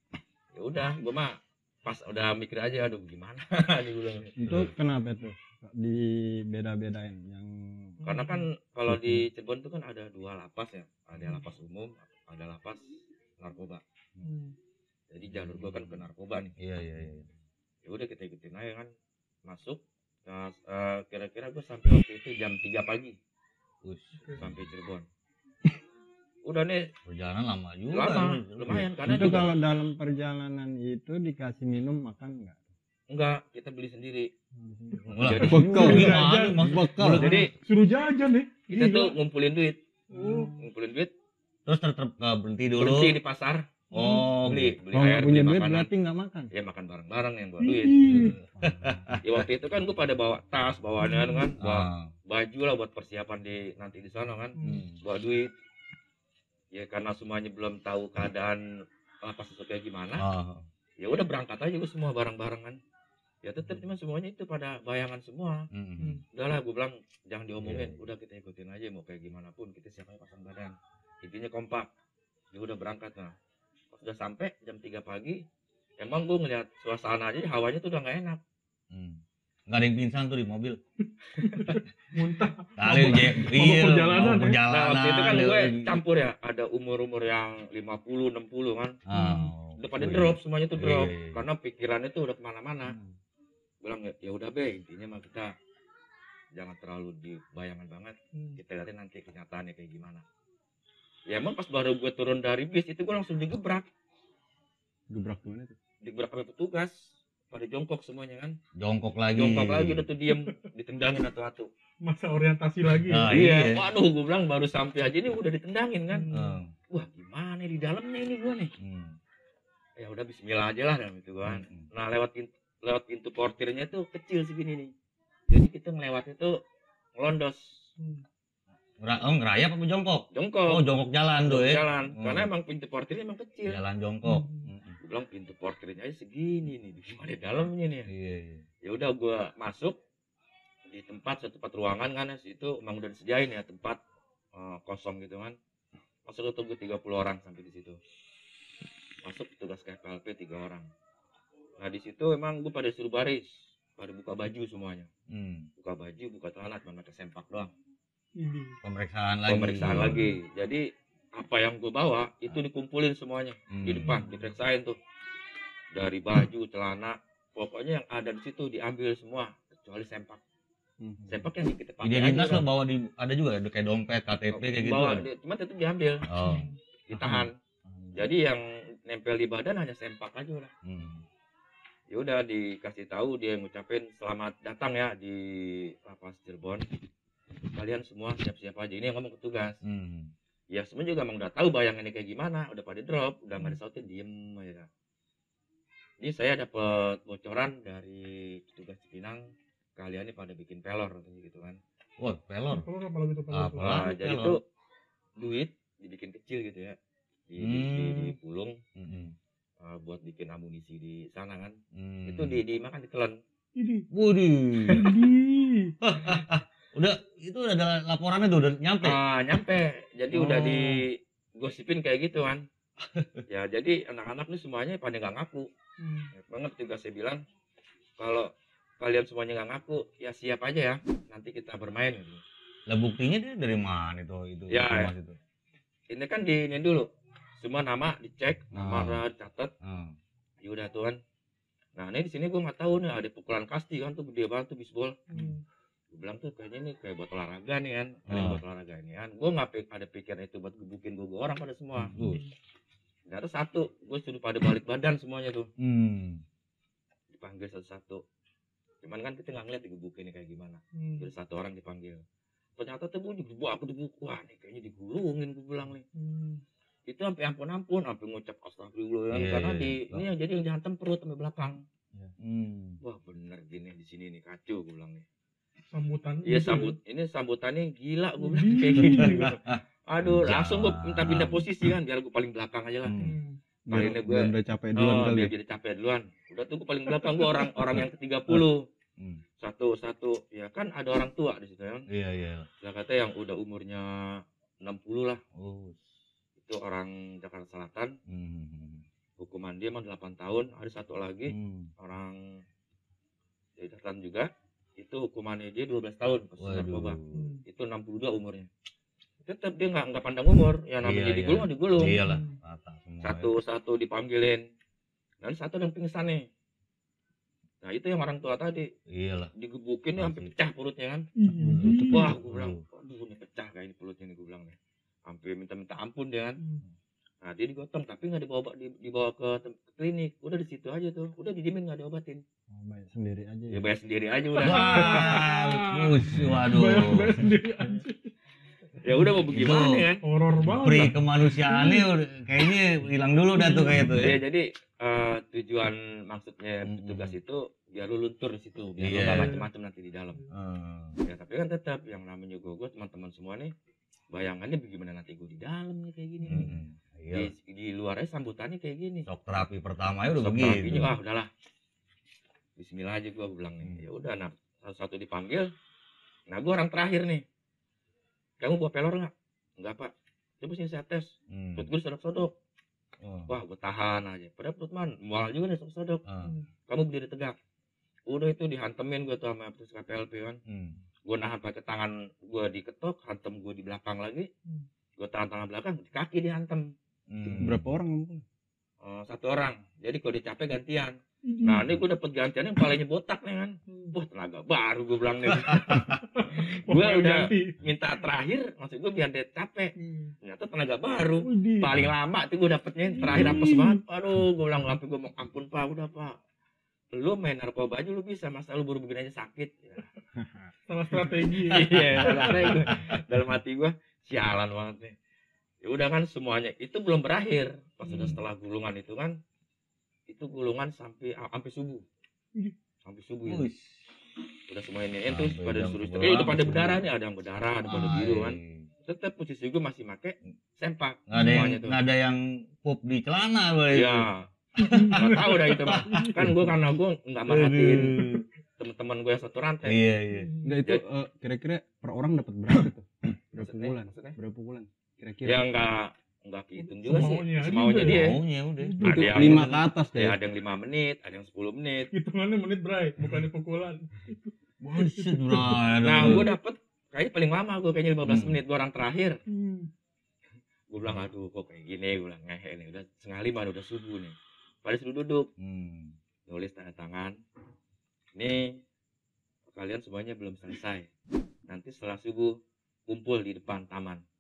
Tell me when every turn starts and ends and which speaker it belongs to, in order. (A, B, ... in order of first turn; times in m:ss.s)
0:00.6-0:04.4 A
0:04.4-0:08.0 B
0:04.5-0:04.7 C
0:08.0-0:08.5 D
0:08.0-0:13.8 A
0:08.9-0:09.3 B
0:14.2-0:14.6 D
0:15.1-0:16.6 A
0:15.4-0:15.7 C
0:16.6-0:17.3 C
0:17.8-0:18.9 A
0:19.5-0:23.2 A
0:23.8-0:24.7 C
0:24.4-0:25.1 A
0:26.4-0:26.9 A
0:27.1-0:29.5 C
0:27.9-0:29.5 A
0:29.0-0:32.7 B
0:33.1-0:34.3 A
0:34.6-0:37.5 B
0:35.1-0:36.0 A
0:35.2-0:37.4 C
0:35.3-0:39.1 D
0:37.0-0:37.5 A
0:38.7-0:41.1 A
0:40.1-0:40.6 D
0:41.7-0:43.2 C
0:42.8-0:43.7 A
0:43.9-0:44.3 D
0:43.9-0:44.8 C
0:44.4-0:45.9 A
0:44.9-0:46.5 B
0:46.5-0:48.1 A
0:47.6-0:48.4 D
0:48.1-0:49.4 C
0:48.1-0:49.2 B
0:49.2-0:55.5 A
0:51.0-0:51.5 D
0:51.6-0:52.1 C
0:54.6-0:54.9 D
0:54.6-0:55.0 C
0:56.7-0:58.6 A
0:59.2-1:00.2 A
1:00.2-1:00.7 C
1:01.0-1:02.8 A
1:03.4-1:05.7 A
1:05.7-1:06.2 C
1:06.3-1:11.9 A
1:07.6-1:08.0 C
1:12.5-1:13.4 A
1:13.9-1:15.4 A
1:16.0-1:18.4 A
1:18.9-1:20.8 C
1:21.4-1:24.6 D
1:21.4-1:21.8 A
1:22.8-1:26.0 C
1:24.7-1:29.0 A
1:29.1-1:31.4 C
1:29.1-1:29.5 D
1:29.8-1:33.0 A
1:32.9-1:33.2 B
1:33.8-1:35.5 A
1:36.5-1:40.2 A
1:38.3-1:38.6 D
1:41.3-1:43.9 A
1:45.1-1:45.8 B
1:46.0-1:48.6 A
1:48.8-1:50.1 C
1:49.3-1:51.7 A
1:52.0-1:53.3 D
1:53.0-1:53.9 C
1:53.3-1:56.3 A
1:56.1-1:56.6 D
1:56.3-1:56.7 C
1:56.9-1:58.7 A
1:58.8-1:59.2 C
2:00.0-2:04.9 A
2:01.4-2:01.9 C
2:05.5-2:06.6 A
2:07.2-2:07.8 A
2:08.0-2:08.2 D
2:09.0-2:12.5 C
2:10.3-2:10.8 A
2:11.4-2:13.8 A
2:13.6-2:15.0 C
2:14.2-2:14.7 D
2:15.0-2:18.1 A
2:18.1-2:18.6 C
2:18.8-2:20.0 A
2:20.9-2:24.0 A
2:24.5-2:25.6 A
2:26.3-2:28.0 A
2:29.2-2:30.9 A
2:31.8-2:35.1 A
2:35.3-2:35.7 C
2:35.8-2:37.7 A
2:38.4-2:38.8 D
2:38.8-2:40.3 C
2:39.5-2:45.0 A
2:39.9-2:40.2 D
2:43.7-2:44.3 C
2:45.9-2:50.4 A
2:51.0-2:51.5 B
2:51.3-2:52.6 A
2:52.0-2:55.3 C
2:54.5-2:56.2 A
2:56.2-2:57.5 C
2:56.4-2:56.8 D
2:57.1-2:57.6 A
2:57.9-2:58.2 B
2:58.1-3:00.7 A
3:00.8-3:01.2 C
3:02.1-3:06.9 A
3:07.7-3:09.8 A
3:09.8-3:10.3 C
3:10.7-3:14.9 A
3:16.2-3:21.8 A
3:22.2-3:22.9 C
3:22.7-3:24.1 D
3:23.5-3:24.6 C
3:23.8-3:24.6 A
3:25.4-3:27.0 A
3:27.5-3:28.8 A
3:27.6-3:28.4 C
3:29.0-3:29.4 C
3:29.8-3:33.4 A
3:31.9-3:32.6 C
3:33.8-3:34.1 D
3:34.1-3:35.2 C
3:34.9-3:36.0 D
3:36.0-3:39.2 C
3:39.0-3:42.6 A
3:40.3-3:41.0 C
3:43.0-3:43.4 C
3:43.5-3:45.7 A
3:46.0-3:46.3 D
3:46.4-3:47.4 A
3:48.2-3:52.4 A
3:52.9-3:55.4 C
3:54.7-3:55.1 A
3:56.1-3:57.1 A
3:57.6-3:59.7 A
3:58.7-3:59.2 C
3:59.8-4:00.1 C
4:00.6-4:01.2 A
4:02.0-4:05.2 A
4:05.3-4:05.6 D
4:06.1-4:12.2 A
4:08.3-4:08.6 C
4:12.0-4:12.4 C
4:12.2-4:12.5 D
4:13.3-4:15.7 A
4:15.8-4:16.4 C
4:17.3-4:18.2 A
4:19.0-4:22.2 A
4:21.0-4:21.3 D
4:22.8-4:26.0 A
4:26.2-4:26.6 D
4:27.1-4:31.8 A
4:29.3-4:30.2 C
4:32.4-4:33.0 C
4:33.0-4:35.2 A
4:35.9-4:37.0 D
4:36.4-4:43.2 A
4:38.4-4:39.6 D
4:39.0-4:41.7 C
4:43.0-4:43.4 C
4:43.2-4:43.6 D
4:43.9-4:45.5 B
4:43.9-4:48.9 A
4:49.2-4:49.4 C
4:49.6-4:52.1 A
4:52.1-4:52.7 C
4:52.8-4:55.4 A
4:55.6-4:56.0 C
4:56.6-4:58.2 A
4:58.3-4:59.0 C
4:59.4-5:02.6 A
5:01.5-5:01.9 C
5:03.8-5:08.7 A
5:06.6-5:07.5 C
5:07.3-5:07.6 D
5:09.4-5:12.2 A
5:11.0-5:13.5 C
5:12.1-5:12.6 D
5:13.2-5:14.6 A
5:15.4-5:16.5 A
5:17.8-5:18.9 A
5:19.1-5:19.5 C
5:19.6-5:21.3 A
5:20.2-5:20.5 C
5:21.4-5:22.4 D
5:21.6-5:22.3 B
5:21.8-5:22.8 C
5:22.0-5:26.6 A
5:27.4-5:32.4 A
5:32.7-5:33.8 B
5:33.7-5:35.5 A
5:34.6-5:38.3 D
5:34.6-5:37.4 C
5:39.0-5:40.2 A
5:39.5-5:40.1 C
5:40.2-5:42.1 D
5:40.6-5:44.4 C
5:43.5-5:44.2 D
5:44.2-5:50.4 A
5:46.9-5:47.4 C
5:49.0-5:49.6 C
5:49.2-5:49.7 D
5:50.5-5:51.2 C
5:51.2-5:53.7 A
5:54.3-5:56.7 A
5:56.5-5:57.5 C
5:57.3-5:59.3 A
5:59.2-6:01.1 C
6:00.4-6:01.5 A
6:02.8-6:05.7 A
6:06.5-6:07.4 A
6:08.6-6:12.5 A
6:11.5-6:11.9 C
6:13.2-6:13.5 C
6:13.5-6:16.2 A
6:16.2-6:16.6 C
6:16.4-6:16.7 D
6:16.9-6:17.6 A
6:18.3-6:20.6 A
6:20.7-6:21.0 C
6:21.3-6:24.5 A
6:25.2-6:26.9 A
6:27.3-6:27.9 C
6:27.4-6:28.4 B
6:29.0-6:46.4 A
6:31.4-6:31.9 D
6:33.9-6:34.2 D
6:35.5-6:36.2 C
6:35.9-6:37.8 D
6:40.0-6:40.3 D
6:41.4-6:41.9 D
6:43.2-6:44.0 D
6:47.1-6:50.1 A
6:50.9-6:52.6 D
6:51.6-6:55.2 A
6:52.1-6:53.2 C
6:55.8-6:59.4 A
6:58.0-6:58.4 C
7:00.3-7:02.0 A
7:03.0-7:03.7 A
7:03.4-7:04.1 C
7:04.7-7:12.0 A
7:05.3-7:07.0 C
7:07.8-7:08.9 C
7:11.3-7:16.6 C
7:11.4-7:11.7 D
7:13.9-7:14.5 A
7:14.8-7:16.6 D
7:15.1-7:20.0 A
7:17.5-7:18.5 C
7:19.8-7:20.5 C
7:20.3-7:20.8 D
7:20.6-7:25.7 B
7:23.6-7:24.4 A
7:25.4-7:28.4 A
7:26.8-7:29.5 D
7:28.0-7:29.8 C
7:29.0-7:30.4 B
7:29.0-7:32.1 A
7:32.1-7:36.5 D
7:34.8-7:36.5 C
7:36.0-7:39.4 A
7:38.2-7:38.6 C
7:39.5-7:39.9 D
7:40.9-7:45.5 A
7:45.6-7:46.1 C
7:46.5-7:47.4 A
7:48.4-7:48.8 A
7:49.7-7:51.1 A
7:51.7-7:52.6 A
7:53.1-7:54.2 A